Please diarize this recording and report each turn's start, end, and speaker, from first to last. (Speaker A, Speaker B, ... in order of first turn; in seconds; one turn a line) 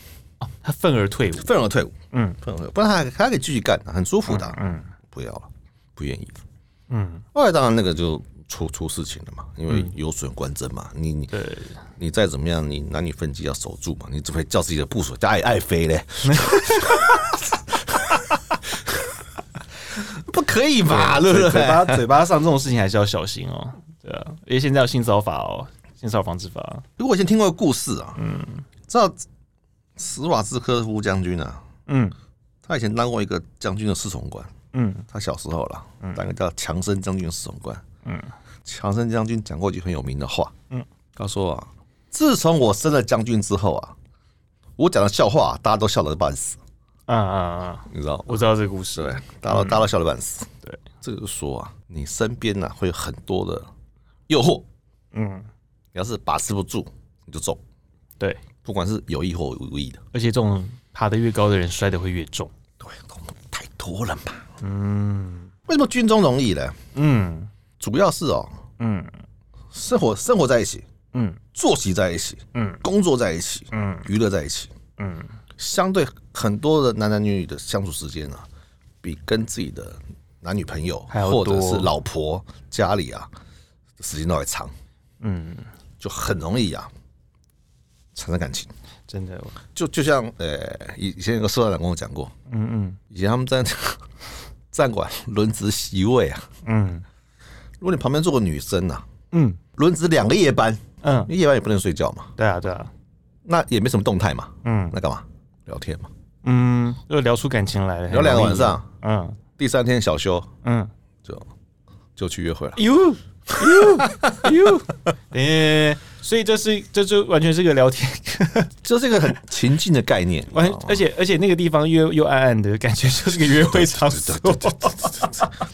Speaker A: 0.4-1.5
Speaker B: 1.4-6.4
Speaker A: 2.1-2.4
Speaker A: 4.3-4.9
Speaker A: 6.9-7.2
Speaker B: 7.3-11.3
Speaker A: 11.3-11.8
Speaker B: 12.0-18.0
Speaker A: 16.2-17.1
Speaker B: 19.9-22.0
Speaker A: 20.9-26.8
Speaker B: 27.0-28.2
Speaker A: 28.2-28.6
Speaker B: 28.9-29.2
Speaker B: 30.0-31.6
Speaker A: 31.9-32.1
Speaker B: 32.6-34.5
Speaker A: 34.7-35.0
Speaker B: 35.1-37.8
Speaker A: 38.0-38.3
Speaker B: 38.6-40.5
Speaker B: 41.1-43.9
Speaker B: 44.8-46.6
Speaker A: 47.1-49.8
Speaker B: 47.9-50.5
Speaker B: 51.0-53.7
Speaker B: 54.3-54.6
Speaker A: 55.1-55.5
Speaker B: 55.9-57.6
Speaker B: 58.6-60.0
Speaker A: 60.1-62.5
Speaker B: 62.8-64.5
Speaker A: 64.6-65.5
Speaker B: 65.7-66.8
Speaker A: 66.9-67.5
Speaker B: 67.8-68.6
Speaker A: 68.8-69.1
Speaker B: 69.7-70.8
Speaker A: 71.1-71.4
Speaker B: 71.5-74.7
Speaker A: 72.5-72.8
Speaker A: 73.7-74.1
Speaker A: 75.0-75.3
Speaker B: 75.6-78.5
Speaker B: 79.0-83.3
Speaker A: 81.1-81.9
Speaker B: 84.0-84.7
Speaker A: 85.2-85.7
Speaker B: 86.0-86.9
Speaker B: 88.1-88.7
Speaker A: 89.1-89.5
Speaker B: 89.7-92.3
Speaker A: 92.5-93.0
Speaker B: 93.1-94.1
Speaker B: 94.7-96.5
Speaker A: 96.6-97.0
Speaker B: 97.8-99.0
Speaker A: 99.3-99.6
Speaker B: 99.8-102.3
Speaker A: 101.0-101.3
Speaker A: 102.4-102.9
Speaker B: 103.5-106.1
Speaker A: 104.6-105.0
Speaker A: 106.4-109.4
Speaker B: 108.1-108.8
Speaker B: 109.6-110.5
Speaker A: 110.6-110.9
Speaker B: 112.2-112.8
Speaker A: 112.8-118.7
Speaker B: 113.5-114.7
Speaker B: 118.8-121.0
Speaker A: 120.5-125.5
Speaker B: 123.5-125.5